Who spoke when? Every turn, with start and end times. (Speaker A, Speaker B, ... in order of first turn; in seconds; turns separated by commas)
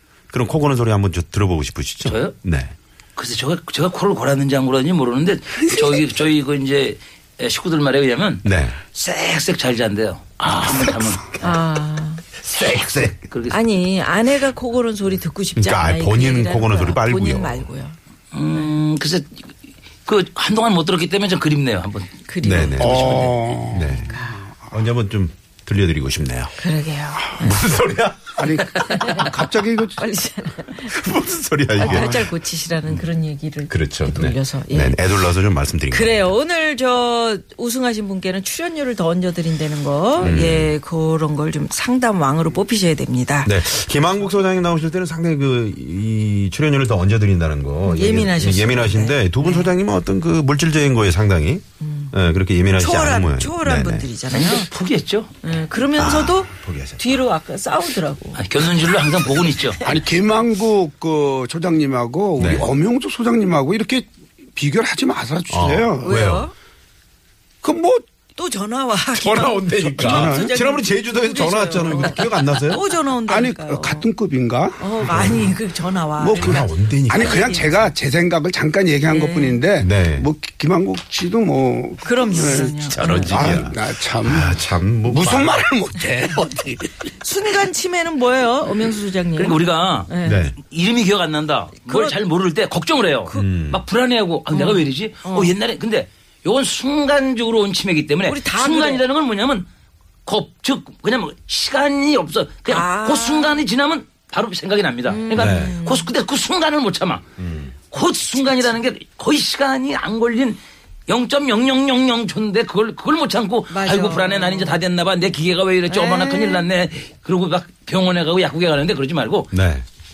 Speaker A: 0.3-2.7, Speaker B: 2.0-2.3, Speaker B: 3.1-11.5, Speaker A: 8.4-8.8, Speaker C: 11.4-12.2, Speaker A: 12.4-13.2, Speaker B: 12.9-13.7, Speaker C: 13.5-17.9, Speaker A: 15.6-17.7, Speaker B: 18.3-19.4, Speaker B: 20.1-22.1, Speaker C: 22.3-24.3, Speaker A: 22.4-26.5, Speaker D: 22.8-24.7, Speaker C: 26.6-27.6, Speaker A: 27.2-29.1, Speaker D: 28.4-30.1, Speaker C: 29.0-29.3, Speaker C: 30.0-31.0, Speaker A: 30.8-32.3, Speaker C: 31.7-35.0, Speaker D: 31.8-32.2, Speaker A: 33.7-36.3, Speaker C: 35.9-43.5, Speaker A: 40.2-40.7, Speaker A: 43.4-54.1, Speaker C: 47.8-49.7, Speaker C: 51.8-52.1, Speaker C: 52.8-54.7, Speaker B: 54.3-55.3, Speaker C: 55.4-58.4, Speaker A: 56.0-57.2, Speaker B: 58.3-59.8, Speaker C: 59.2-60.0, Speaker D: 59.8-66.2, Speaker A: 62.4-62.7, Speaker A: 65.5-66.5, Speaker C: 66.0-66.5, Speaker D: 67.6-68.0, Speaker C: 68.3-74.1, Speaker A: 69.1-72.9, Speaker D: 69.9-70.5, Speaker D: 73.3-75.4, Speaker C: 74.8-77.9, Speaker A: 75.0-75.5, Speaker D: 76.2-84.5, Speaker A: 76.3-77.6, Speaker C: 79.1-79.6, Speaker A: 79.8-80.3, Speaker C: 82.0-83.6, Speaker A: 82.7-85.6, Speaker D: 85.1-87.1, Speaker C: 87.2-90.4, Speaker B: 89.3-99.7, Speaker A: 90.2-90.6, Speaker C: 91.8-92.2, Speaker C: 93.2-93.5, Speaker A: 93.3-93.8, Speaker C: 94.5-95.5, Speaker C: 98.2-99.0, Speaker B: 100.2-107.2, Speaker C: 102.7-103.6, Speaker C: 105.1-106.1, Speaker A: 105.3-105.8, Speaker A: 107.4-107.7, Speaker B: 107.9-119.5, Speaker C: 113.7-114.8, Speaker C: 115.9-116.7, Speaker A: 119.5-119.8